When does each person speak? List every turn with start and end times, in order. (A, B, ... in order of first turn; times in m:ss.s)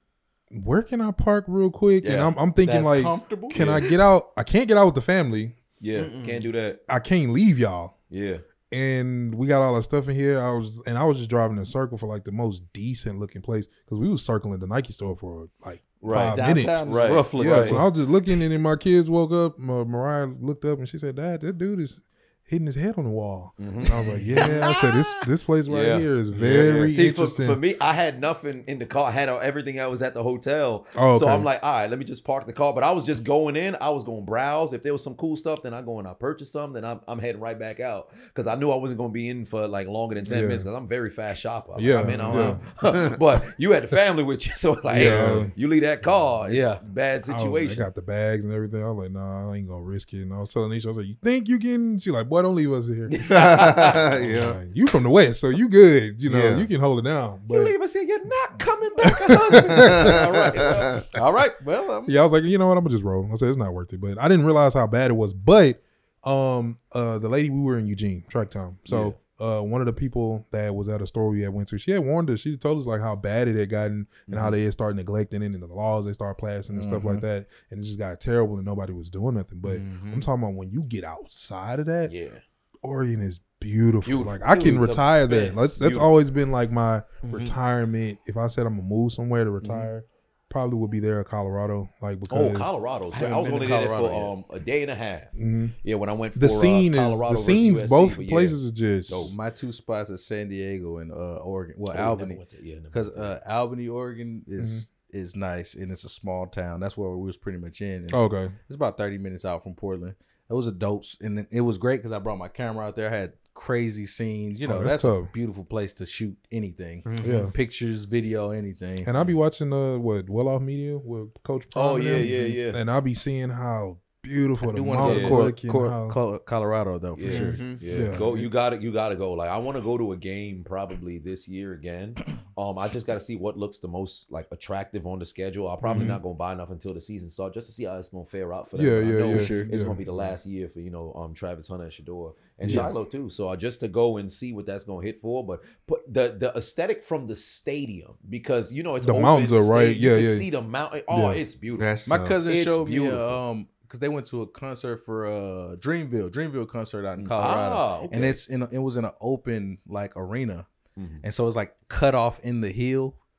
0:00.5-0:05.6 A
0:02.0-0:02.4 B
0:02.6-0:03.6 C
0:03.5-0:03.9 B
0:05.8-0:06.8 B
0:06.0-0:06.4 D
0:06.9-0:08.0 A
0:08.1-0:08.4 B
0:08.7-0:27.6 A
0:16.0-0:17.8 B
0:16.1-0:17.9 C
0:23.6-0:47.9 B
0:24.0-0:24.6 D
0:31.0-0:31.5 A
0:40.3-0:40.7 A
0:41.8-0:42.6 A
0:42.3-0:43.2 D
0:44.9-0:45.5 A
0:46.4-0:46.8 C
0:47.3-0:53.2 A
0:53.1-0:54.2 B
0:53.2-0:54.6 D
0:54.1-0:57.8 A
0:56.2-0:56.7 D
0:57.5-1:01.1 B
0:59.3-1:00.7 A
0:59.7-1:01.0 D
1:01.1-1:02.1 C
1:02.1-1:22.1 A
1:08.9-1:09.2 B
1:14.3-1:14.6 B
1:16.7-1:17.2 C
1:19.6-1:20.3 D
1:22.1-1:22.4 B
1:22.8-1:32.7 A
1:24.0-1:26.1 B
1:27.2-1:27.6 D
1:29.6-1:29.9 B
1:32.3-1:39.4 B
1:33.1-1:34.3 C
1:35.4-1:35.8 A
1:36.4-1:39.4 A
1:39.2-1:42.4 C
1:41.9-1:43.4 B
1:42.9-1:59.1 C
1:44.6-1:44.8 A
1:48.1-1:48.5 A
1:54.7-1:55.3 A
1:57.0-1:57.5 D
1:57.2-1:57.6 A
1:59.0-2:06.2 A
2:01.7-2:02.8 B
2:04.6-2:07.6 C
2:05.0-2:05.4 B
2:07.2-2:31.9 B
2:07.3-2:07.8 D
2:07.9-2:08.5 A
2:15.8-2:16.2 D
2:18.8-2:20.0 A
2:19.3-2:20.3 C
2:22.6-2:22.9 A
2:22.6-2:22.9 C
2:29.0-2:30.5 A
2:31.1-2:31.4 A
2:31.8-2:32.4 D
2:32.1-2:40.7 C
2:32.5-2:33.4 B
2:37.2-2:38.4 B
2:41.0-2:41.2 B
2:41.2-2:43.2 C